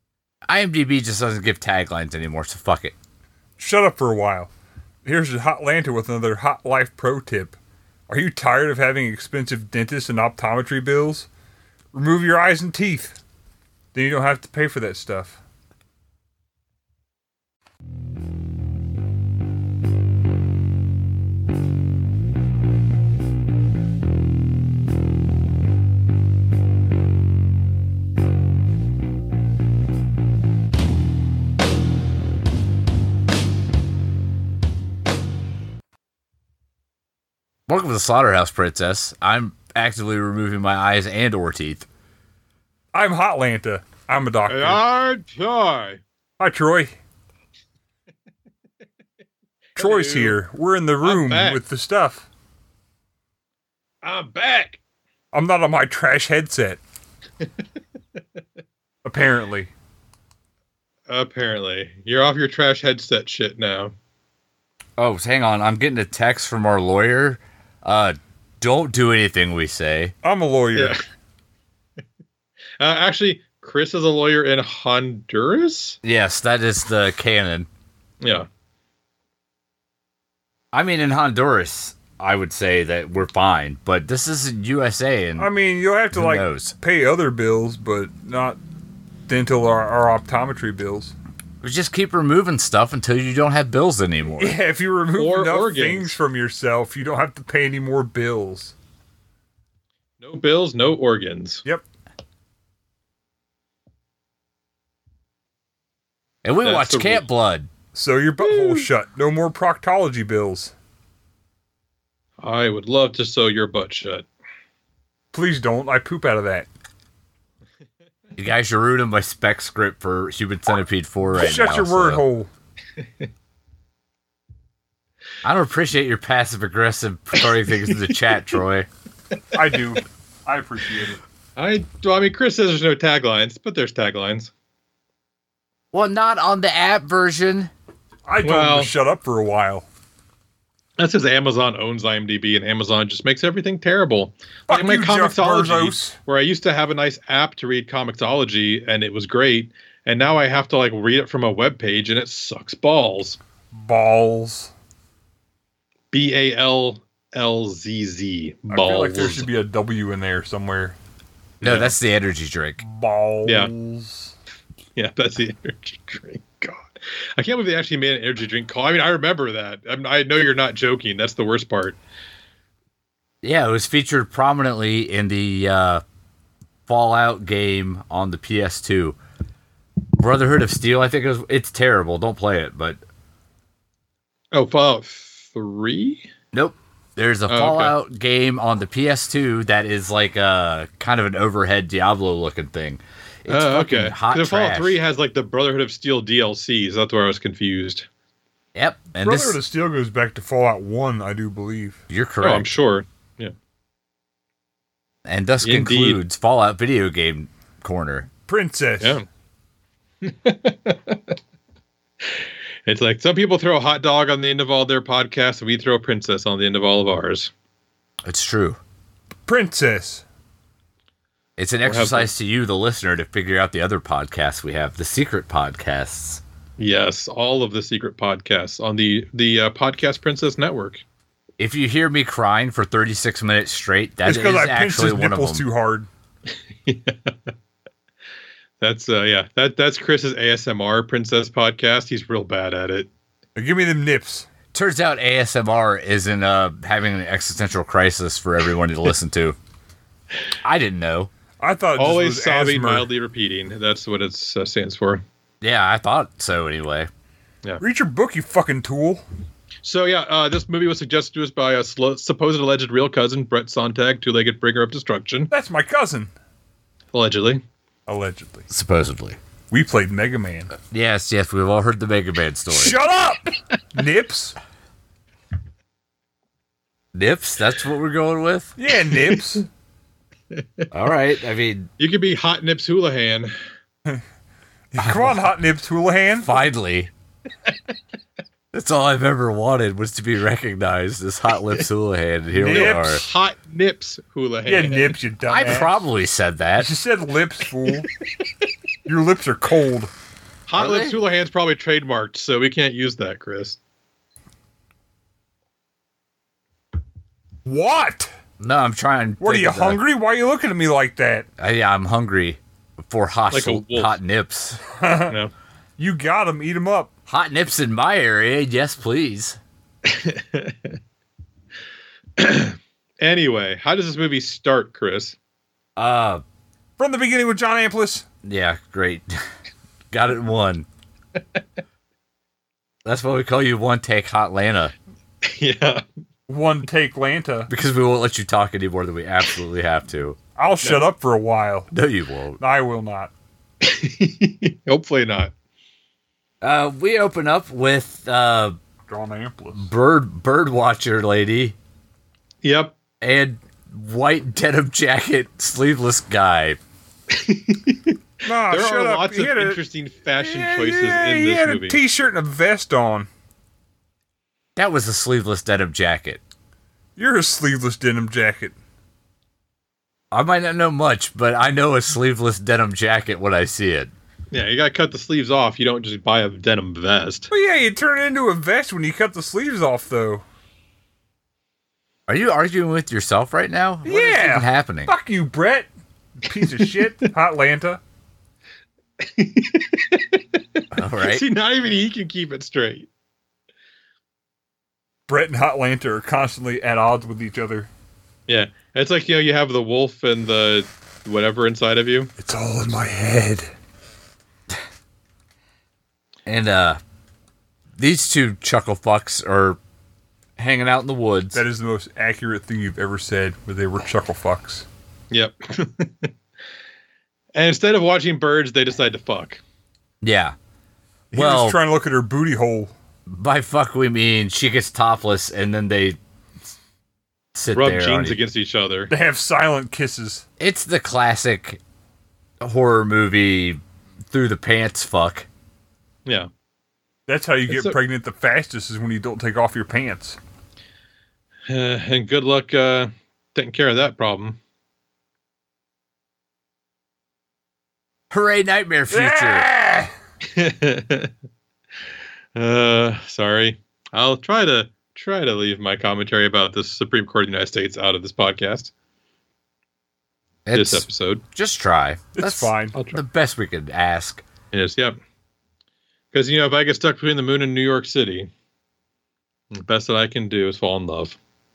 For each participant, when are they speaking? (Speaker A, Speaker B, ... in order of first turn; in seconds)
Speaker A: 0.5-2.9, 37.7-41.9, 65.0-70.1, 76.0-77.7, 80.7-85.5, 86.1-86.7, 91.6-94.6, 106.4-107.7, 118.4-122.2, 125.4-128.9, 135.9-137.7, 161.6-162.8, 173.4-176.0, 176.9-179.2, 180.2-183.0, 186.5-195.0, 198.7-199.6, 202.1-202.7, 205.2-208.3, 218.2-218.8, 221.6-226.4, 231.6-235.6, 244.7-249.6, 250.6-251.3, 255.6-257.1, 268.7-269.4, 270.9-273.0, 277.1-278.7, 280.9-281.9, 285.0-285.4, 286.4-287.1, 288.7-293.2, 295.5-296.9, 300.7-301.2, 308.6-310.0, 311.6-314.8, 317.3-319.6, 326.0-326.4, 328.4-329.3, 330.1-330.9, 333.0-334.9, 337.7-340.4, 341.9-342.6, 346.6-348.8, 349.8-351.8, 353.2-356.8, 364.8-366.4, 370.3-374.1, 382.3-385.1, 390.9-391.4, 406.4-407.0, 408.0-409.8, 410.6-411.6, 420.2-420.5, 421.3-421.8, 423.3-426.2, 427.5-428.4, 430.6-431.8, 432.6-435.5, 448.3-449.7, 460.6-464.4
Speaker B: 3.6-4.5, 5.0-7.6, 8.1-11.3, 11.9-13.2, 13.9-15.4, 42.9-44.8, 46.4-47.0, 49.8-52.2, 55.3-56.8, 59.0-59.7, 70.2-71.0, 85.4-88.6, 89.3-91.1, 94.4-98.7, 107.9-110.7, 115.3-116.7, 121.3-122.5, 129.5-131.2, 138.3-139.8, 144.7-146.2, 153.7-154.7, 158.7-161.0, 162.8-164.3, 199.2-202.0, 208.5-209.2, 219.5-220.2, 234.2-236.1, 243.5-244.5, 251.6-253.1, 257.8-259.2, 265.5-266.3, 268.1-268.7, 269.7-270.7, 272.7-274.6, 278.8-279.6, 284.9-286.5, 292.5-293.2, 294.6-295.9, 296.8-298.1, 299.1-300.1, 307.6-308.3, 309.4-311.5, 314.9-315.4, 316.0-317.1, 327.0-328.2, 336.5-337.7, 340.6-341.9, 342.6-343.3, 349.1-349.9, 358.4-359.8, 360.4-363.3, 367.2-368.7, 377.5-380.4, 384.0-385.9, 386.4-388.0, 395.3-397.9, 402.4-403.7, 411.5-414.9, 421.3-422.9, 429.1-430.4, 437.3-440.4, 449.1-450.1, 462.3-462.9
Speaker C: 44.5-46.0, 49.8-50.4, 51.0-51.6, 54.0-54.8, 61.1-63.9, 70.7-71.0, 72.8-76.0, 78.2-78.5, 95.2-96.2, 100.2-101.6, 106.6-107.2, 108.4-108.9, 112.4-114.3, 131.6-134.5, 138.4-138.9, 141.0-153.4, 156.1-159.4, 161.6-161.9, 163.4-163.7, 164.9-172.0, 184.5-186.3, 187.5-187.9, 193.5-198.1, 202.4-203.5, 205.6-206.2, 209.0-209.2, 210.2-211.2, 212.2-217.5, 221.8-222.3, 226.8-231.0, 236.8-237.5, 238.8-243.1, 252.0-255.2, 259.8-265.5, 267.1-267.6, 279.1-279.6, 282.0-283.5, 292.7-295.1, 300.7-303.8, 313.5-314.1, 320.0-320.9, 322.4-325.4, 335.4-336.0, 343.8-345.5, 352.6-352.9, 357.3-358.2, 358.7-362.0, 374.5-377.5, 386.6-387.3, 389.2-393.1, 398.5-402.3, 415.3-416.3, 417.5-419.6, 427.7-429.1, 437.7-437.9, 441.7-444.6, 450.4-451.3, 452.6-458.9, 460.7-461.4, 462.9-463.2, 464.7-465.2, 466.3-468.5, 469.7-471.4